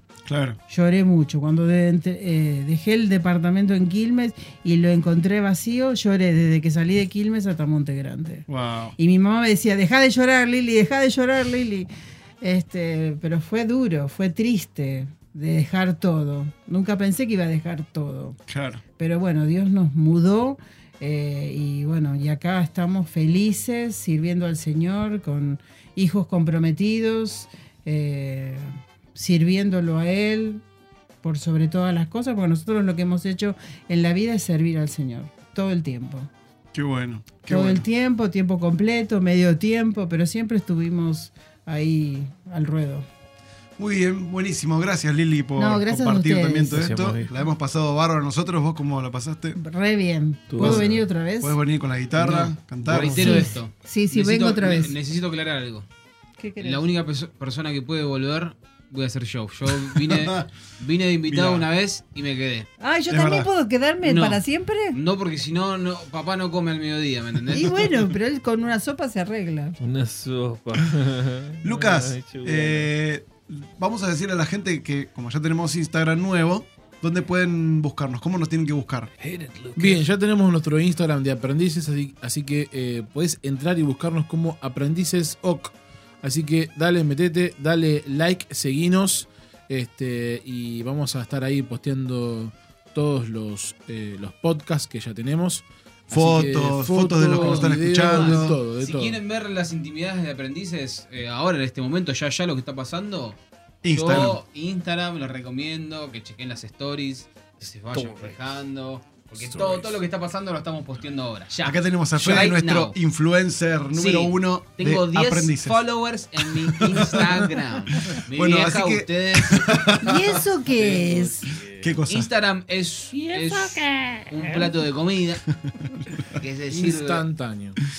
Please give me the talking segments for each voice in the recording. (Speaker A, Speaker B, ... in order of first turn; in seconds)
Speaker A: 0.2-0.6, 8.5-8.9, 18.5-18.8, 36.7-37.9, 43.8-49.6, 50.6-50.9, 51.4-53.5, 59.9-60.4, 61.3-61.7, 63.1-63.5, 71.6-79.1, 96.1-98.6, 103.8-104.4, 111.6-115.8, 116.4-117.5, 118.1-120.4, 121.8-122.3
Speaker B: 0.7-8.4, 9.0-11.9, 12.4-18.4, 19.0-30.6, 31.2-36.3, 37.5-43.0, 45.5-46.9, 49.5-51.6, 53.1-54.9, 56.4-56.8, 62.8-65.0, 67.5-69.8, 120.0-121.5
Speaker C: 46.8-47.3, 50.5-51.0, 53.0-53.5, 69.8-72.9, 79.2-80.0, 107.9-108.5, 109.4-110.0, 120.7-122.0, 123.1-124.7
Speaker D: 52.1-55.9, 56.6-62.7, 64.0-67.8, 97.3-103.4, 103.9-113.0, 113.9-120.0, 122.1-125.4, 126.4-127.2
Speaker E: 79.8-99.2, 126.7-127.8